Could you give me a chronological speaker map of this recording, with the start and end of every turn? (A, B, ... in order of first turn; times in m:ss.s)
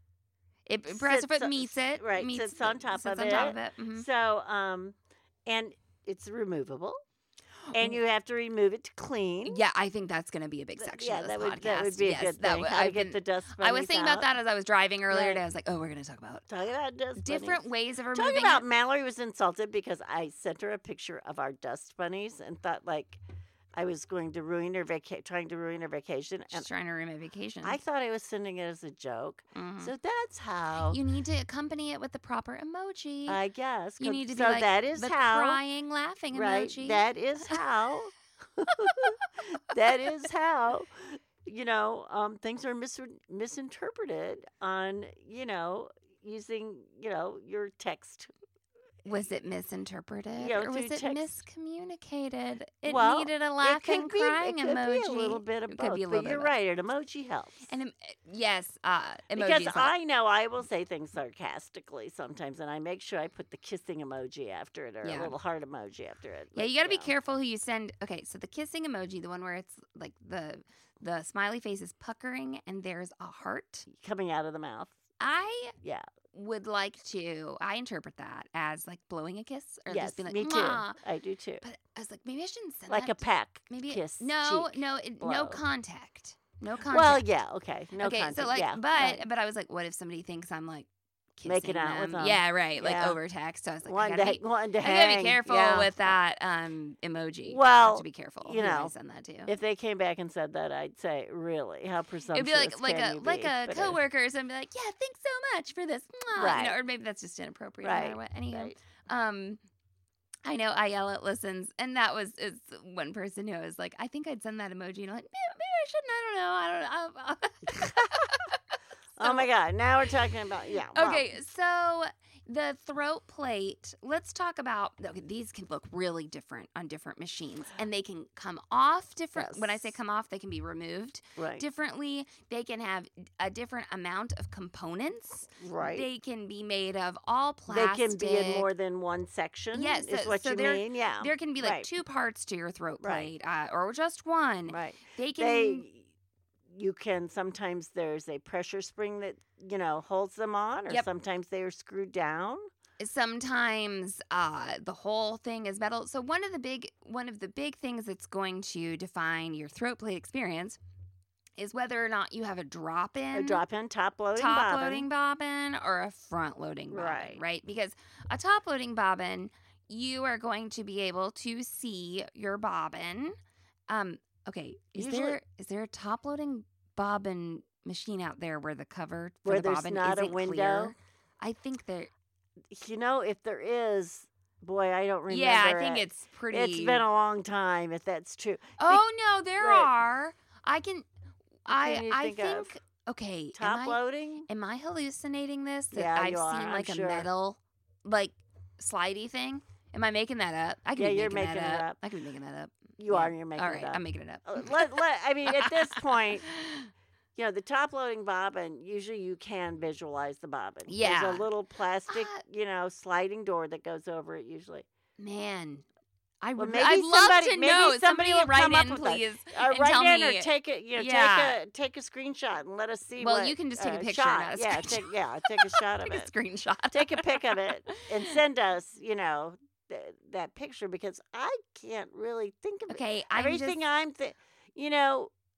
0:00.7-0:04.0 A
0:00.9-0:07.0 B
0:07.7-0:08.0 A
0:07.7-0:09.6 B
0:09.4-0:16.4 A
0:10.8-0:14.3 B
0:15.1-0:15.4 B
0:16.5-0:23.2 B
0:17.2-0:18.6 A
0:23.7-0:26.7 B
0:26.5-0:27.8 A
0:27.6-0:31.0 B
0:29.5-0:29.9 A
0:30.8-0:33.4 A
0:33.3-0:35.6 B
0:34.0-0:37.5 A
0:36.3-0:48.3 B
0:49.0-0:56.5 A
0:50.4-0:51.2 B
0:52.8-0:57.7 B
0:57.7-0:59.9 A
0:59.3-1:07.1 B
1:05.0-1:05.4 A
1:06.6-1:13.9 A
1:13.9-1:14.9 B
1:15.2-1:15.8 A
1:16.3-1:21.0 A
1:19.9-1:21.6 B
1:21.6-1:27.2 A
1:22.9-1:25.6 B
1:26.9-1:29.2 B
1:28.0-1:39.5 A
1:31.4-1:33.2 B
1:33.8-1:36.2 B
1:37.5-1:38.9 B
1:39.4-1:44.0 B
1:42.3-1:49.6 A
1:46.3-1:46.8 B
1:47.8-1:48.7 B
1:50.4-1:58.6 A
1:59.2-2:01.3 B
1:59.2-1:59.5 A
2:00.9-2:18.7 A
2:09.3-2:09.9 B
2:11.4-2:11.6 B
2:15.6-2:16.0 B
2:17.7-2:21.9 B
2:19.7-2:25.9 A
2:23.0-2:23.3 B
2:24.7-2:26.1 B
2:26.7-2:32.7 B
2:33.0-2:40.8 A
2:41.6-2:43.6 A
2:43.3-2:45.1 B
2:44.4-2:53.4 A
2:46.9-2:47.4 B
2:53.9-3:02.1 A
2:55.0-2:55.4 B
2:59.4-3:00.9 B
3:02.7-3:09.0 B
3:05.3-3:07.0 A
3:08.8-3:11.0 A
3:09.6-3:09.9 B
3:11.6-3:26.9 A
3:11.7-3:12.7 B
3:13.5-3:14.5 B
3:15.9-3:17.3 B
3:21.0-3:22.0 B
3:23.0-3:26.5 B
3:27.3-3:34.9 B
3:30.9-3:31.5 A
3:32.1-3:32.4 A
3:35.2-3:35.8 A
3:36.4-3:41.6 A
3:36.6-3:46.3 B
3:43.2-3:48.1 A
3:46.9-3:55.3 B
3:52.9-3:53.8 A